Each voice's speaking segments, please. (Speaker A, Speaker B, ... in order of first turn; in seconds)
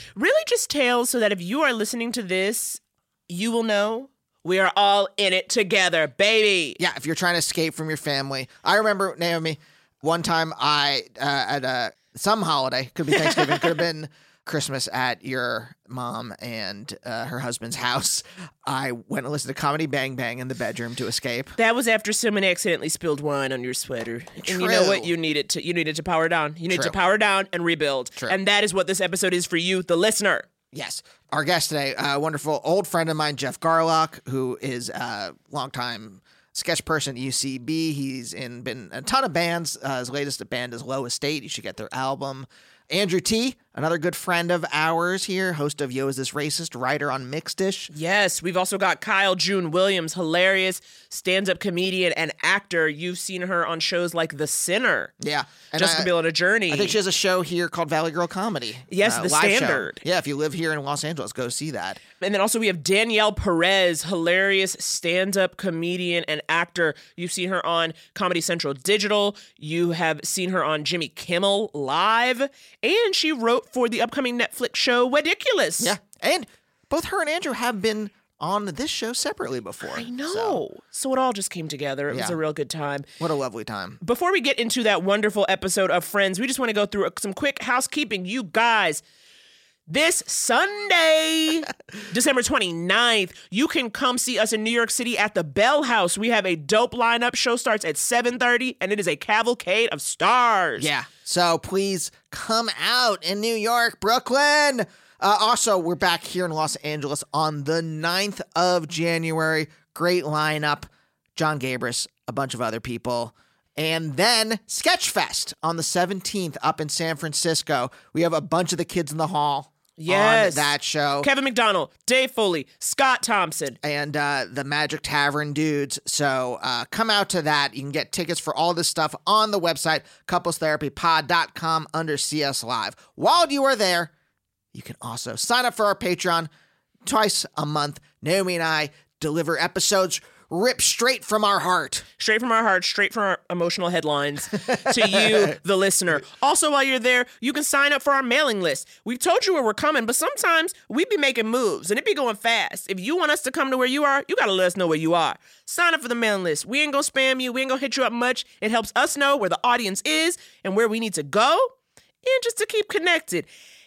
Speaker A: 0.1-6.8, 21.6-30.5, 47.9-55.1, 55.7-57.0, 58.9-60.0, 62.2-75.9, 79.9-83.0, 84.0-89.0, 89.9-100.9, 120.0-123.8, 142.2-161.7, 162.2-163.5
Speaker B: 6.8-21.5, 24.4-25.1, 26.7-26.9, 30.7-47.9, 55.2-56.1, 56.7-62.0, 75.8-80.6, 82.1-82.4, 83.2-84.0, 100.8-121.3, 123.8-134.1, 134.7-136.5, 137.0-142.0, 144.7-145.5